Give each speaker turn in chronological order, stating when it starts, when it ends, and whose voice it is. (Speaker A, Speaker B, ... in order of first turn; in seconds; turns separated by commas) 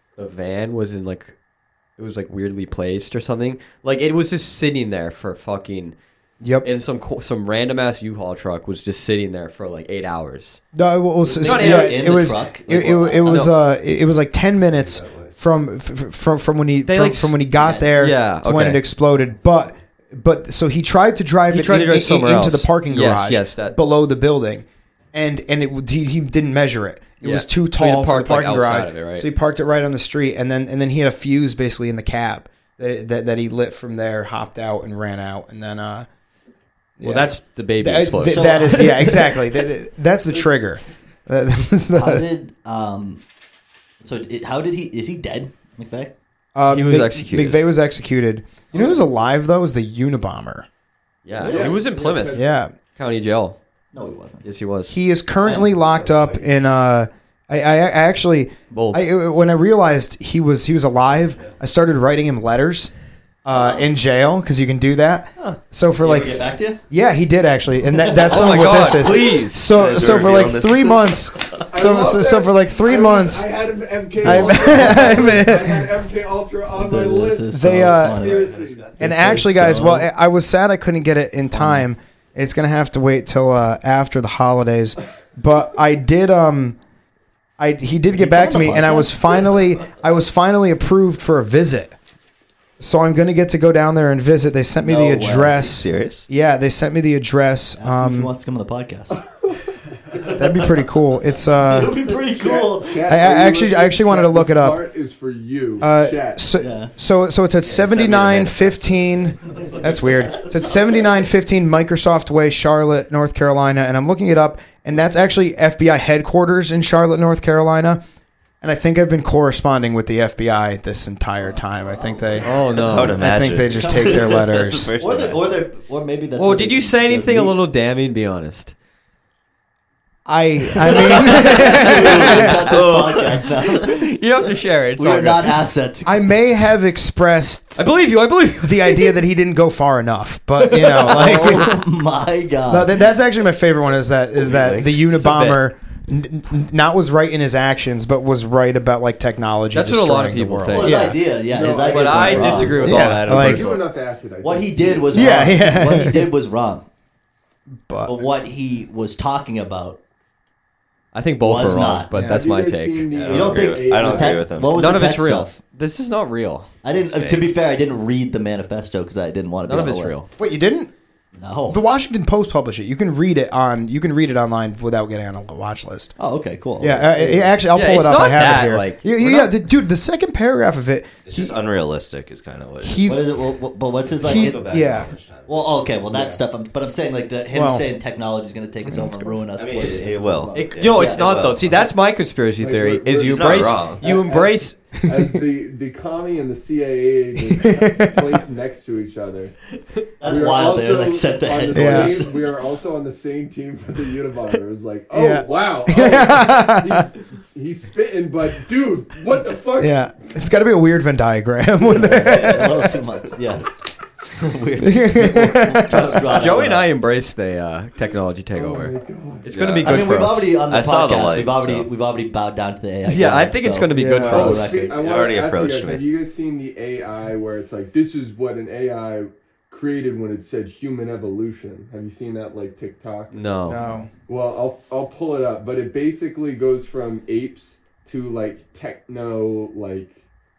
Speaker A: 0.2-1.4, Speaker A: 2.0-6.0, Speaker B: 6.4-6.7, Speaker A: 6.6-10.6, Speaker B: 10.7-36.1, Speaker C: 11.2-13.5, Speaker A: 11.4-12.1, Speaker A: 13.3-13.5, Speaker D: 14.8-15.3, Speaker A: 16.9-17.4, Speaker C: 17.6-17.9, Speaker A: 18.0-18.8, Speaker A: 21.5-23.8, Speaker A: 27.2-29.3, Speaker B: 37.0-42.2, Speaker A: 37.0-39.3, Speaker C: 38.2-39.3, Speaker C: 42.0-43.2, Speaker C: 44.0-46.1, Speaker B: 46.5-50.7, Speaker A: 46.7-47.6, Speaker A: 51.2-52.5, Speaker E: 51.4-52.5, Speaker C: 51.4-51.8, Speaker B: 52.3-52.7, Speaker A: 53.0-53.6, Speaker C: 53.9-54.4, Speaker A: 54.4-55.0, Speaker B: 54.9-62.9, Speaker C: 55.4-56.5, Speaker A: 58.7-59.0, Speaker B: 63.5-73.5, Speaker C: 63.5-63.8, Speaker C: 66.0-66.8, Speaker C: 67.9-68.5, Speaker A: 68.3-69.6, Speaker D: 69.7-71.7, Speaker E: 71.7-78.9, Speaker B: 74.2-75.9, Speaker C: 74.3-75.1, Speaker C: 76.7-80.1, Speaker B: 77.5-78.2, Speaker D: 78.2-79.0, Speaker B: 79.0-86.8, Speaker C: 81.5-81.9, Speaker B: 87.6-92.0, Speaker C: 88.1-89.6, Speaker B: 92.8-98.3, Speaker C: 94.8-95.7, Speaker D: 95.6-96.3, Speaker C: 97.8-99.2, Speaker B: 100.3-102.0, Speaker C: 101.6-103.1, Speaker E: 102.2-106.4, Speaker B: 103.1-104.8, Speaker B: 105.8-118.0, Speaker C: 106.6-106.9, Speaker C: 107.6-108.8, Speaker C: 109.4-111.3, Speaker B: 118.6-124.9, Speaker C: 121.4-122.8, Speaker A: 122.4-123.2, Speaker D: 122.8-125.6, Speaker C: 123.5-127.6, Speaker A: 126.4-128.7, Speaker B: 130.3-132.5, Speaker C: 130.7-136.3, Speaker A: 131.5-132.8, Speaker D: 132.2-133.4, Speaker A: 133.7-135.6, Speaker B: 136.1-137.9, Speaker A: 137.8-139.2, Speaker B: 138.6-141.8, Speaker C: 140.6-143.0, Speaker B: 142.7-151.1, Speaker D: 144.5-144.9, Speaker A: 145.1-145.6, Speaker A: 149.7-153.9, Speaker C: 150.7-153.1, Speaker E: 151.5-155.6, Speaker B: 152.8-153.7, Speaker C: 154.4-156.9, Speaker B: 155.1-156.3, Speaker B: 157.8-158.2, Speaker C: 158.1-160.0, Speaker A: 161.1-163.8, Speaker C: 161.4-162.3, Speaker B: 162.1-162.4, Speaker E: 162.3-164.5, Speaker D: 163.1-164.8, Speaker C: 163.3-165.6, Speaker A: 164.7-166.7, Speaker C: 166.8-170.2, Speaker D: 166.9-167.5, Speaker A: 169.7-170.3, Speaker B: 170.4-170.9, Speaker C: 171.3-171.8, Speaker B: 171.7-176.1, Speaker C: 176.2-177.6, Speaker B: 176.8-181.6, Speaker A: 177.7-179.5, Speaker D: 181.2-183.2, Speaker B: 182.8-183.3, Speaker C: 183.1-191.6, Speaker D: 184.0-186.0, Speaker B: 184.2-185.1, Speaker B: 187.5-187.9, Speaker B: 188.9-189.4, Speaker D: 189.5-191.9, Speaker A: 190.5-194.8, Speaker E: 192.6-199.6, Speaker D: 193.2-194.0, Speaker B: 197.5-198.2, Speaker C: 200.2-202.5, Speaker E: 200.2-210.0, Speaker B: 201.7-202.2, Speaker B: 205.1-207.1, Speaker B: 209.8-212.9, Speaker C: 211.8-213.7, Speaker C: 214.3-216.9, Speaker B: 214.8-216.3, Speaker A: 216.2-218.9, Speaker E: 218.6-219.5, Speaker A: 219.4-220.5, Speaker C: 219.7-225.0, Speaker D: 220.6-221.9, Speaker A: 223.1-224.8, Speaker B: 223.9-224.5, Speaker E: 224.3-233.4, Speaker D: 224.9-226.1, Speaker A: 233.3-233.8, Speaker B: 233.7-234.1, Speaker E: 234.3-240.2